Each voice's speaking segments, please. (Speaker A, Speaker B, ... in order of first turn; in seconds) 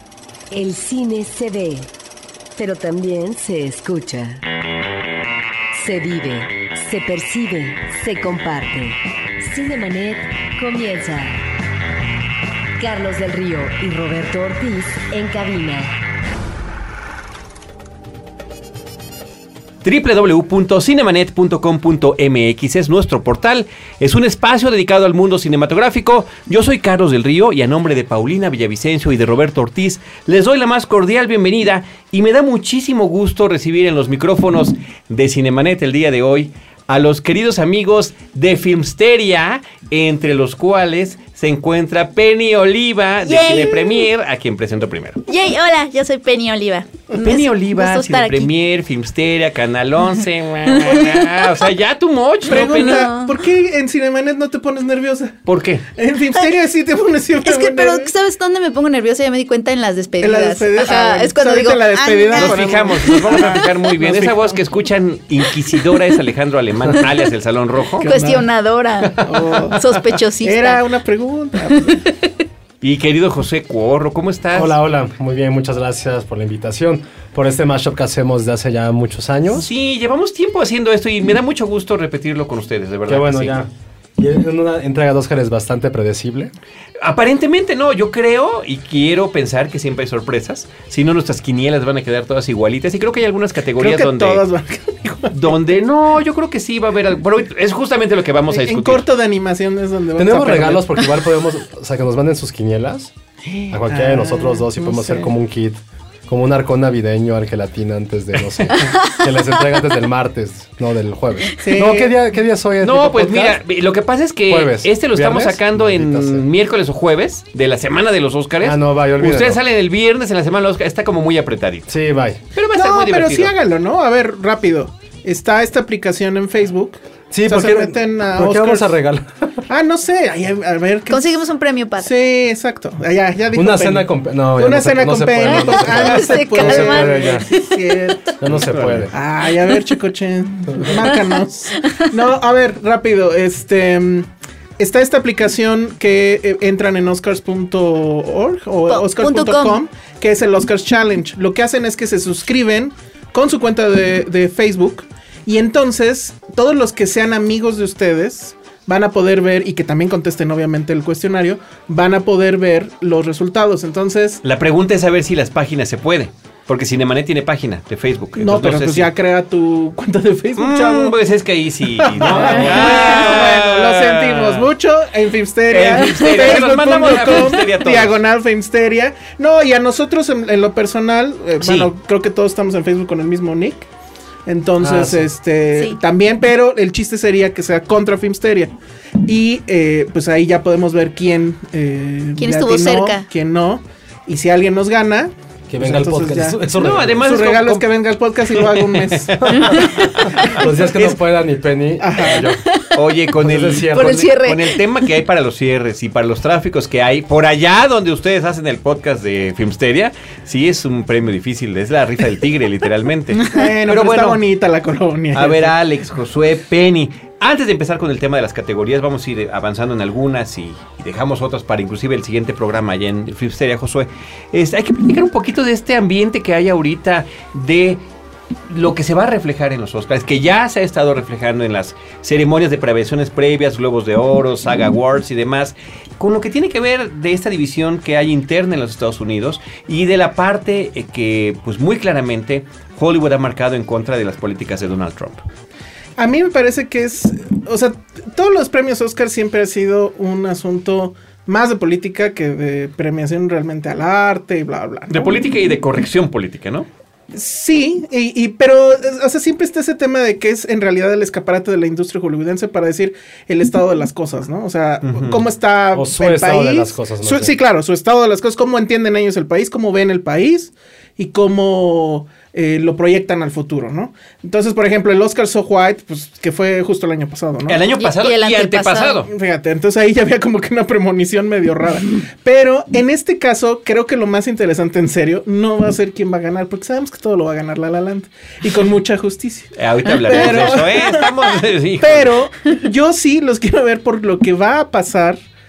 Speaker A: 0.5-1.9, 2.6-4.4, 5.7-11.4, 12.8-16.0
Speaker B: 19.8-45.2, 47.2-53.1, 55.5-55.9, 62.4-68.1, 72.8-74.8, 79.5-83.6, 87.0-94.5, 95.3-99.1, 112.8-121.9, 122.5-123.5, 164.4-169.1, 170.6-174.7, 175.7-178.2, 181.6-181.9, 196.8-197.9, 198.5-200.6, 202.9-214.4, 215.3-228.0, 228.7-245.4, 255.1-256.9, 265.0-265.4, 277.7-279.3, 289.8-292.4
Speaker C: 43.2-44.1, 45.3-48.5, 50.7-51.5, 52.5-53.4, 57.4-63.7, 68.0-70.8, 71.8-72.3, 108.7-109.3, 131.1-132.1, 135.4-138.1, 140.9-142.1, 148.9-149.8, 172.2-173.4, 176.2-177.4, 192.4-193.3, 199.5-200.1, 202.4-203.0, 203.8-205.1, 278.0-279.2, 290.3-290.6
Speaker D: 52.5-55.4, 56.0-58.1, 60.2-64.6, 68.0-68.5, 69.2-69.8, 70.4-72.0, 93.8-95.5, 98.5-101.1, 103.6-105.3, 111.6-112.2, 122.7-128.9, 129.7-131.3, 132.0-164.4, 168.4-171.2, 172.0-183.9, 184.5-188.7, 189.2-196.6, 197.1-201.2, 202.0-202.4, 213.5-215.8, 246.2-255.3, 257.3-277.8, 279.3-291.3, 292.0-295.4
Speaker E: 69.0-69.6, 74.5-79.7, 83.1-86.5, 100.2-103.1, 103.7-113.6, 114.5-116.5, 118.6-119.6, 121.9-122.4, 127.3-129.7, 133.5-137.5, 138.4-139.1, 184.8-185.3, 195.7-197.2, 199.6-202.6, 203.3-204.2, 265.9-267.6